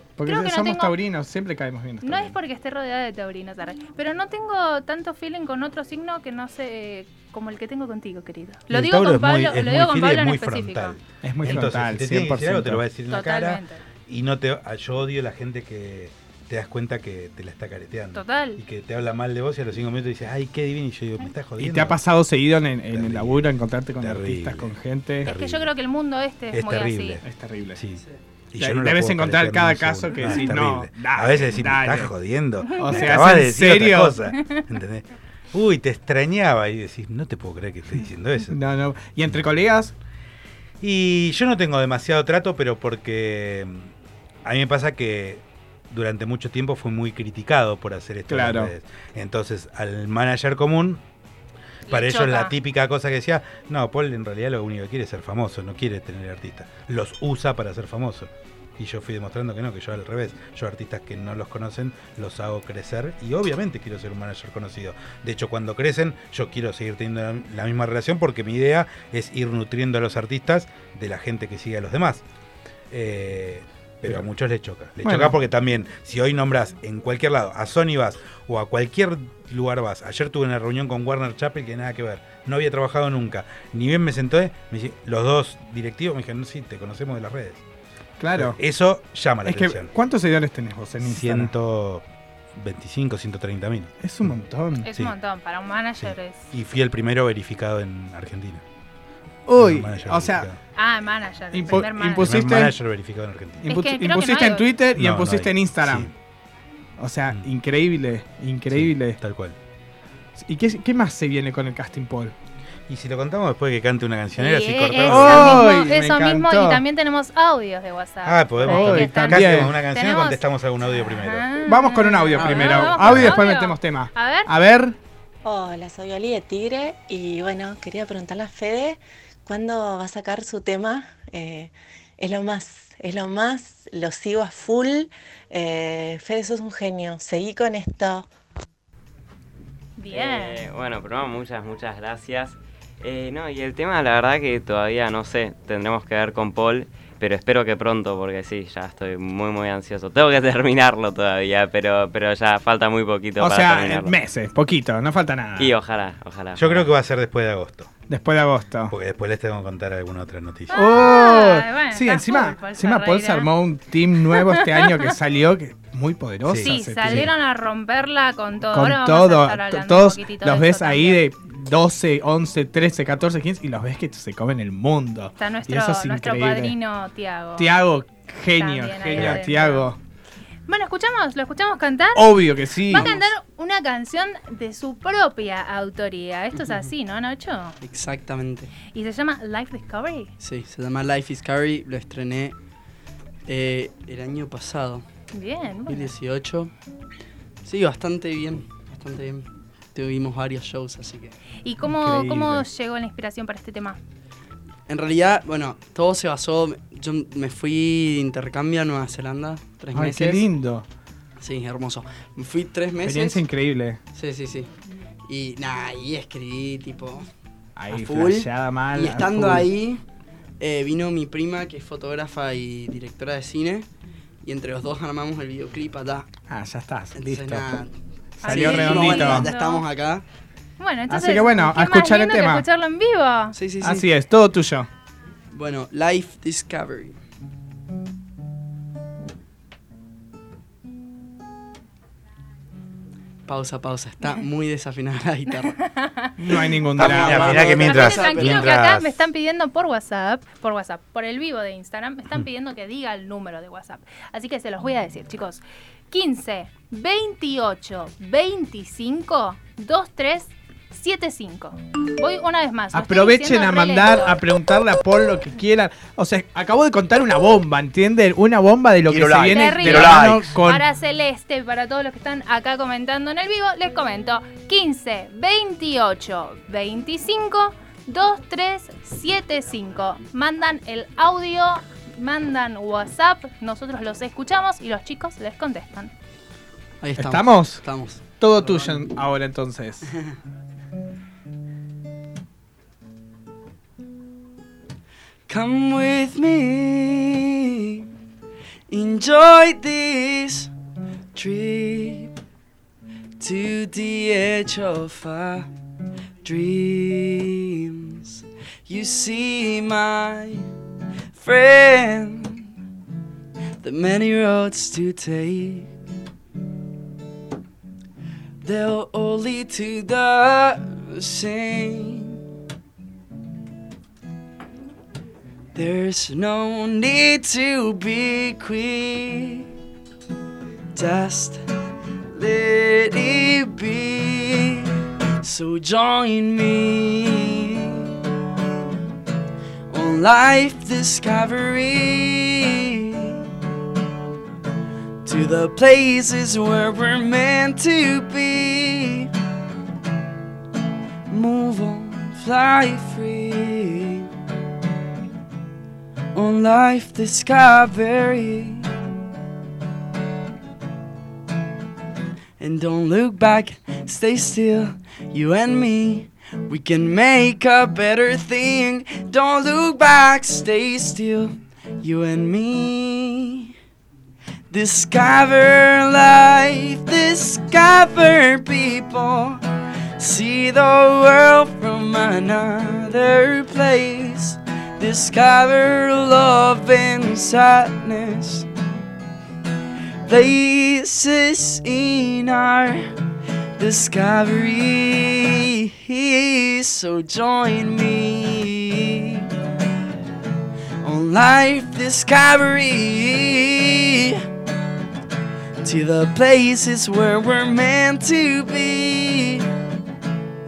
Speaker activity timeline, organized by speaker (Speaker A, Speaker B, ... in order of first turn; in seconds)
Speaker A: 0.2-2.4, 11.2-12.8, 21.6-25.3, 27.2-27.8, 28.6-32.1, 32.7-34.2, 38.5-39.9, 48.3-48.7, 75.0-75.3, 88.2-88.6, 89.4-91.5, 94.0-94.9, 99.5-100.5, 101.5-102.7, 103.6-106.1, 107.0-109.2, 110.4-112.3, 115.0-116.8, 118.6-119.7, 121.6-125.0, 153.4-155.7, 158.1-158.9, 160.7-167.3, 168.7-176.7, 177.6-180.0, 182.1-183.2, 201.8-202.6, 209.9-210.8, 213.0-214.0, 217.8-219.7, 226.5-227.8, 228.4-229.5, 231.1-232.7, 233.8-234.9, 246.4-247.8, 262.9-270.8, 287.2-287.8, 288.4-290.1
Speaker B: 0.2-1.0, 2.0-11.0, 13.1-13.8, 18.1-18.6, 25.2-27.2, 51.9-52.5, 94.8-96.5, 100.8-102.4, 103.7-104.7, 114.4-120.4, 121.0-124.5, 140.0-140.6, 160.7-163.5, 164.2-165.1, 166.6-171.2, 175.4-177.7, 178.5-179.9, 180.7-187.8, 188.9-190.3, 195.3-196.1, 201.6-204.0, 228.4-229.8, 230.8-233.5, 245.8-246.6, 247.7-264.4, 269.5-286.1
Speaker C: 8.7-22.0, 22.9-23.5, 24.0-24.7, 25.2-25.7, 26.5-27.2, 27.8-28.0, 28.5-38.6, 40.8-43.9, 44.4-51.0, 51.9-72.2, 72.9-87.6, 88.3-89.9, 91.0-94.3, 96.0-98.6, 99.6-100.6, 101.8-103.7, 104.9-106.1, 108.7-109.6, 112.9-115.7, 118.2-121.5, 123.1-123.3, 156.6-157.9, 158.9-160.8, 166.4-167.3, 246.9-249.2, 269.1-269.5, 270.1-270.4
Speaker D: 122.3-123.0, 187.8-188.7, 190.4-192.6, 193.4-195.0, 195.9-196.7, 197.6-201.3, 204.9-210.4, 211.4-213.4, 214.1-214.7, 215.3-217.3, 217.9-220.0, 220.6-223.9, 224.4-226.3, 227.2-227.9, 228.4-230.2, 233.5-234.1, 235.5-237.2, 243.5-245.8, 247.0-248.8, 287.0-289.0, 295.5-298.0, 298.9-300.7, 301.3-302.3, 303.4-305.7, 306.4-310.7, 311.3-312.7, 313.8-315.9, 318.6-322.4, 325.7-329.6, 330.9-331.6, 332.3-338.1, 339.9-343.4, 345.2-349.3, 351.3-354.3, 356.3-358.9, 362.6-373.7, 374.7-379.6, 380.2-388.7, 390.2-393.1, 393.8-399.4, 401.0-404.4, 405.8-409.7
Speaker E: 125.4-138.3
Speaker F: 140.1-154.1, 155.6-156.9